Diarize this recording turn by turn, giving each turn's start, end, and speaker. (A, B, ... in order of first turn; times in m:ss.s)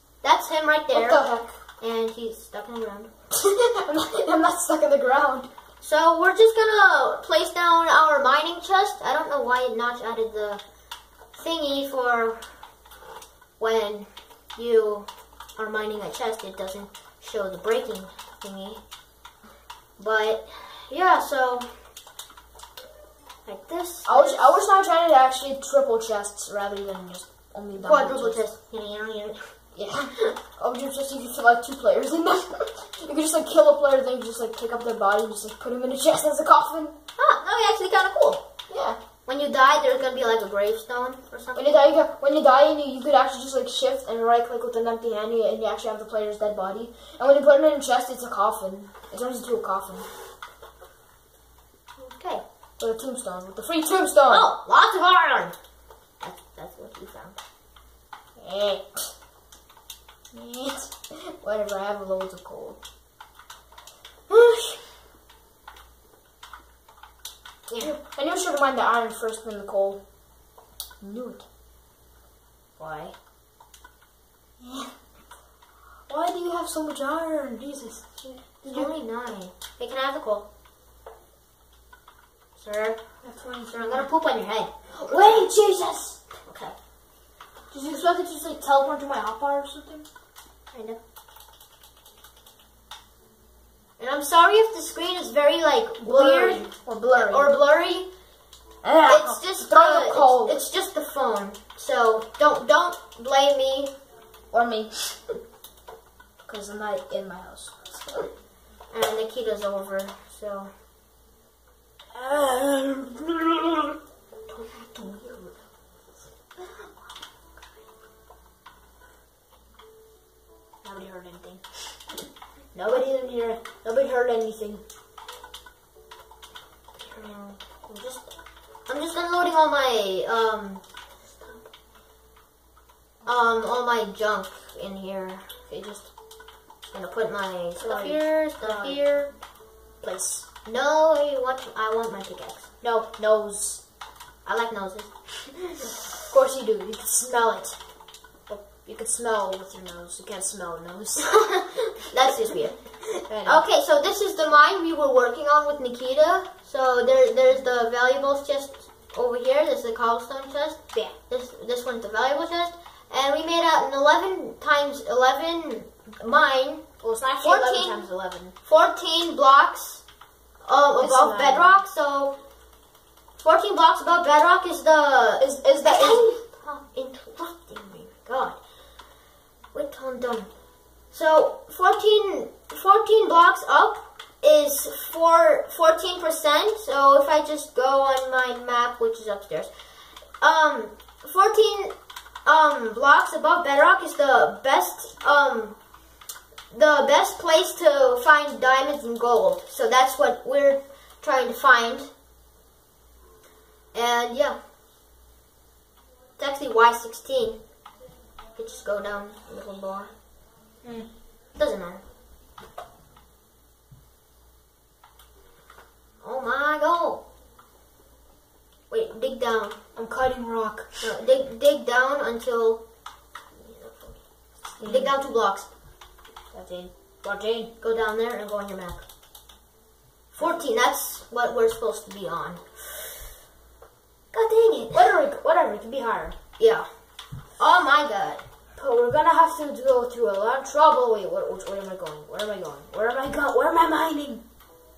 0:00.2-0:01.2 A
0:00.9-0:01.6 B
0:01.8-0:03.1 A
0:03.3-0:05.5 B
0:05.8-0:10.6 A
0:11.3-0:12.4 A
0:13.6-0:18.8 A
0:20.0-0:21.7 A
0:23.4-0:24.6 A
0:24.0-0:28.4 B
0:27.8-0:29.5 A
0:29.7-0:37.0 B
0:37.2-0:38.4 A
0:38.7-0:39.0 B
0:39.2-0:41.7 A
0:41.5-0:50.0 B
0:52.0-0:52.4 A
0:52.8-0:54.5 B
0:54.3-0:55.5 A
0:56.2-0:57.4 A
0:58.4-0:59.1 B
1:00.3-1:02.8 B
1:04.3-1:04.8 A
1:07.7-1:08.0 A
1:07.8-1:10.0 B
1:11.0-1:11.4 B
1:12.8-1:13.1 A
1:14.6-1:14.9 B
1:16.1-1:18.9 B
1:18.6-1:20.5 A
1:22.6-1:23.0 A
1:23.2-1:24.1 B
1:23.7-1:25.2 A
1:24.9-1:26.2 B
1:26.4-1:26.7 A
1:27.7-1:30.0 B
1:30.7-1:31.0 A
1:34.0-1:38.1 A
1:36.0-1:37.6 B
1:38.8-1:40.6 B
1:39.0-1:43.9 A
1:44.5-1:45.2 B
1:46.4-1:48.3 B
1:48.9-1:50.7 A
1:52.1-1:54.0 B
1:54.5-1:55.0 A
1:54.9-1:55.5 B
2:00.8-2:01.6 B
2:02.7-2:04.8 B
2:07.0-2:08.3 A
2:08.9-2:10.8 A
2:13.2-2:15.6 A
2:15.7-2:16.1 B
2:16.8-2:19.3 A
2:17.8-2:19.1 B
2:20.0-2:20.5 B
2:20.6-2:22.7 A
2:22.8-2:23.8 B
2:24.4-2:25.6 A
2:26.3-2:27.8 B
2:28.5-2:31.5 B
2:31.3-2:46.8 A
2:33.2-2:33.6 B
2:47.0-2:48.5 B
2:47.4-2:48.0 A
2:48.6-2:50.0 A
2:50.6-2:52.4 A
2:51.0-2:51.7 B
2:53.4-2:58.6 A
2:55.4-2:56.3 B
2:59.7-3:00.5 A
3:01.1-3:09.7 A
3:10.4-3:11.9 A
3:12.4-3:15.8 A
3:16.7-3:22.1 A
3:23.9-3:24.6 A
3:26.4-3:27.6 A
3:28.6-3:30.1 A
3:30.8-3:31.1 B
3:31.5-3:32.0 A
3:36.2-3:37.2 A
3:38.9-3:39.8 A
3:39.9-3:41.1 B
3:41.0-3:42.8 A
3:43.5-3:44.2 A
3:44.8-3:45.7 A
3:44.8-3:45.1 B
3:46.5-3:47.7 B
3:47.8-3:49.0 A
3:50.3-3:53.2 A
3:50.4-3:50.6 B
3:54.3-3:55.1 A
3:54.9-3:56.4 B
3:56.6-3:56.9 A
3:57.6-3:58.4 A
3:58.8-4:04.4 B